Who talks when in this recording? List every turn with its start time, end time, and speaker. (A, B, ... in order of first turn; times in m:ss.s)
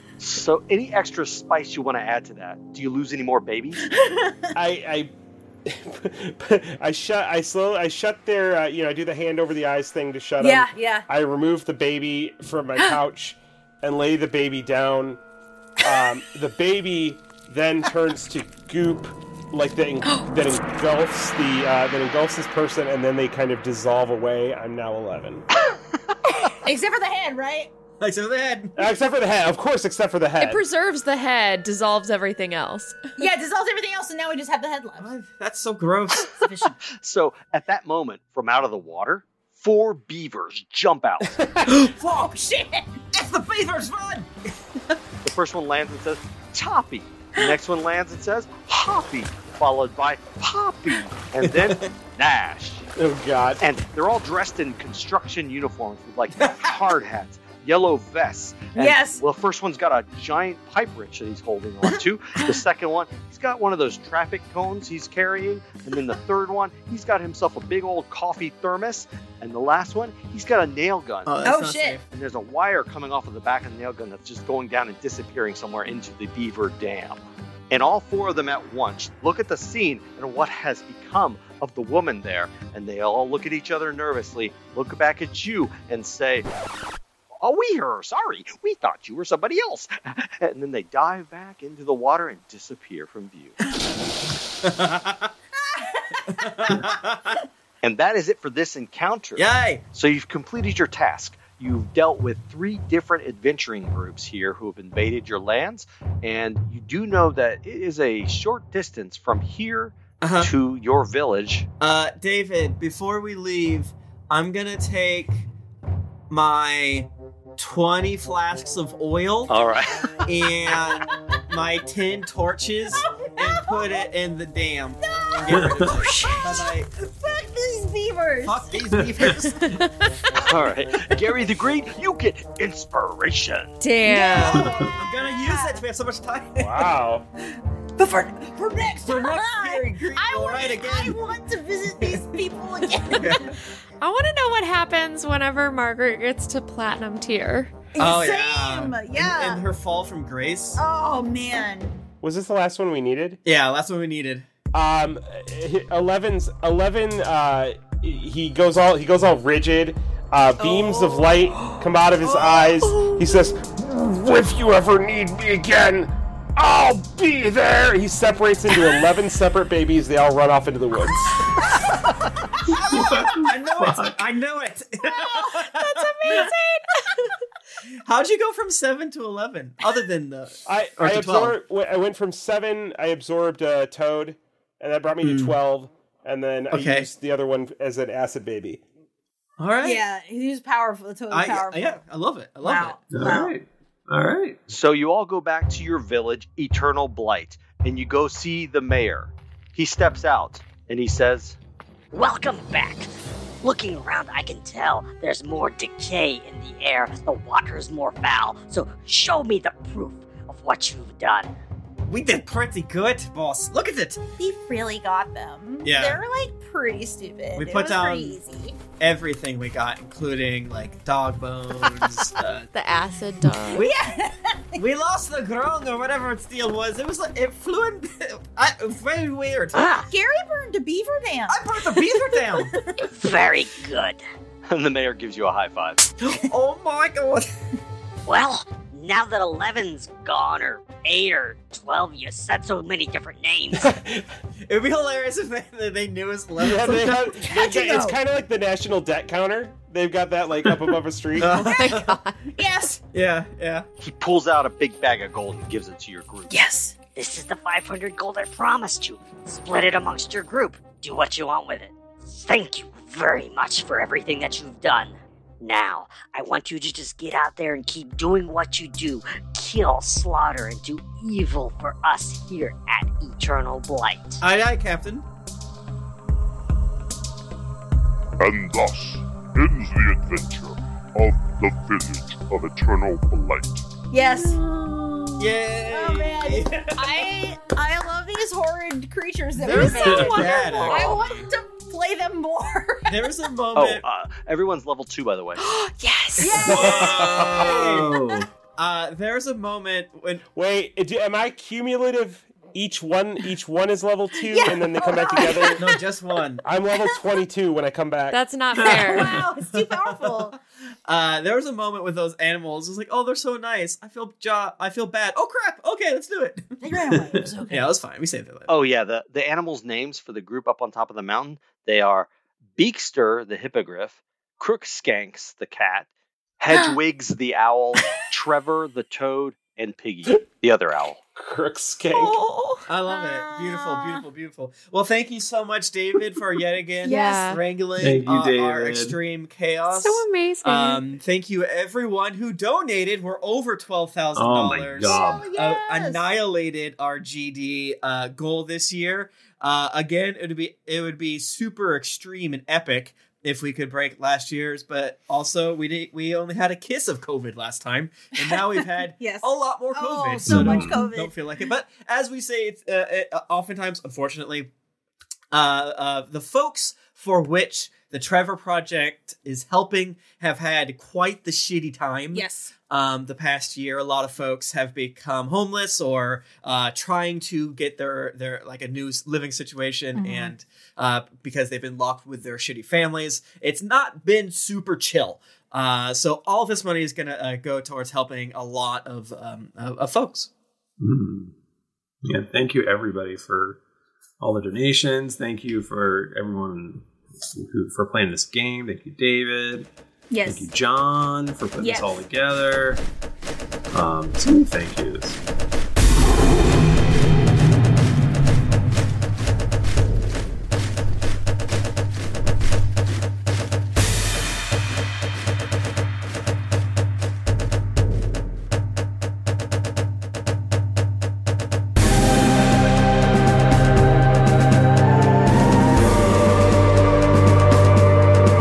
0:00.2-0:03.8 A
0:03.8-0:04.4 B
0:04.6-0:05.1 C
0:05.6-0:15.2 C
0:10.4-0:11.1 B
0:15.8-0:25.4 C
0:20.0-0:20.3 D
0:26.6-0:27.7 B
0:28.0-0:28.7 E
0:28.8-0:30.6 C
0:30.4-0:33.0 D
0:33.2-0:35.1 B
0:35.0-0:36.5 E
0:36.4-0:36.8 B
0:36.9-0:41.4 A
0:41.7-0:41.9 E
0:41.9-0:44.3 B
0:45.2-0:52.9 A
0:51.5-0:51.8 E
0:53.0-0:53.6 C
0:53.6-1:11.4 A
0:56.4-0:56.7 E
0:58.7-0:59.2 B
1:11.3-1:12.0 E
1:11.4-1:12.0 B
1:12.1-1:26.4 A
1:27.4-1:33.6 A
1:34.6-1:35.3 E
1:35.7-1:36.8 B
1:36.3-1:37.4 E
1:37.8-1:51.7 A
1:39.4-1:39.8 E
1:50.2-1:50.5 E
1:51.8-1:55.4 E
1:56.3-1:59.5 E
1:59.5-2:00.1 A
2:00.3-2:06.9 E
2:03.0-2:04.1 B
2:05.0-2:05.6 B
2:05.5-2:05.9 F
2:05.9-2:06.5 D
2:06.9-2:08.7 B
2:08.4-2:09.7 E
2:09.4-2:10.1 D
2:10.4-2:13.7 A
2:13.8-2:14.5 D
2:14.0-2:15.8 B
2:14.1-2:16.9 E
2:14.5-2:14.9 F
2:16.6-2:17.3 C
2:18.0-2:23.6 B
2:19.0-2:21.4 E
2:21.9-2:23.6 E
2:24.0-2:27.7 D
2:28.0-2:29.6 B
2:28.0-2:30.8 E
2:30.8-2:32.0 B
2:32.2-2:33.4 C
2:33.4-2:34.5 E
2:34.7-2:51.6 C
2:40.6-2:41.3 E
2:42.2-2:42.8 B
2:42.2-2:43.5 D
2:52.7-2:54.2 F
2:52.7-2:56.5 E
2:55.0-2:56.8 B
2:58.0-3:01.6 E
3:00.6-3:08.8 C
3:05.2-3:05.6 E
3:06.7-3:07.1 E
3:09.6-3:10.0 E
3:09.8-3:12.0 B
3:11.3-3:13.0 E
3:12.6-3:13.5 B
3:13.1-3:14.6 F
3:14.7-3:21.6 A
3:22.1-3:23.1 G
3:23.6-3:31.5 G
3:32.1-3:34.2 E
3:34.4-3:38.8 B
3:35.8-3:36.2 E
3:37.6-3:38.4 E
3:39.0-3:42.7 E
3:42.7-3:43.9 D
3:43.7-3:44.0 E
3:43.7-3:44.8 B
3:44.8-3:49.9 E
3:49.7-3:50.1 G
3:50.1-3:53.0 B
3:51.5-3:52.7 E
3:53.0-3:54.2 G
3:54.7-3:56.0 A
3:56.2-3:57.5 E
3:58.3-4:03.8 G
4:03.8-4:04.3 C
4:04.6-4:07.4 E
4:06.6-4:11.7 C
4:06.9-4:08.2 B
4:11.4-4:12.1 E
4:11.6-4:12.0 B
4:11.6-4:12.4 D
4:12.5-4:13.0 B
4:13.1-4:13.8 E
4:14.0-4:16.5 A
4:16.5-4:17.0 B
4:17.1-4:34.4 G
4:34.4-4:35.2 E
4:38.4-4:43.8 H
4:44.1-4:44.6 B
4:44.8-4:45.3 D
4:45.4-4:47.2 E
4:45.9-4:53.3 B
4:49.6-4:51.5 E
4:49.7-4:51.4 D
4:49.9-4:50.3 F
4:53.1-4:54.0 E
4:53.7-4:55.6 A
4:55.6-4:56.9 D
4:56.4-4:58.0 B
4:56.6-4:58.2 E
4:56.8-4:57.6 C
4:57.5-4:58.5 F
4:58.7-5:00.4 E
5:00.5-5:05.9 C
5:04.4-5:06.0 B
5:05.7-5:06.6 E
5:06.6-5:08.4 C
5:08.3-5:09.4 D
5:08.7-5:10.5 E
5:08.8-5:10.6 B
5:11.1-5:18.7 E
5:16.8-5:17.9 B
5:18.7-5:26.1 A
5:26.6-5:31.2 A
5:31.4-5:32.4 C
5:32.1-5:32.9 D
5:32.9-6:04.7 E
5:33.1-5:34.2 B
5:37.0-5:37.5 B
5:37.0-5:37.6 D
5:38.0-5:39.2 F
5:39.9-5:41.0 D
5:44.4-5:45.6 F
5:45.1-5:46.2 B
5:59.2-6:01.4 B
6:00.4-6:01.1 F
6:05.5-6:30.5 E
6:12.3-6:12.7 B
6:20.1-6:20.5 B
6:31.0-6:31.5 F
6:32.2-6:33.8 F
6:34.4-6:39.9 F
6:40.3-6:40.7 B
6:40.4-6:43.0 F
6:41.8-6:42.2 B
6:43.9-6:45.4 F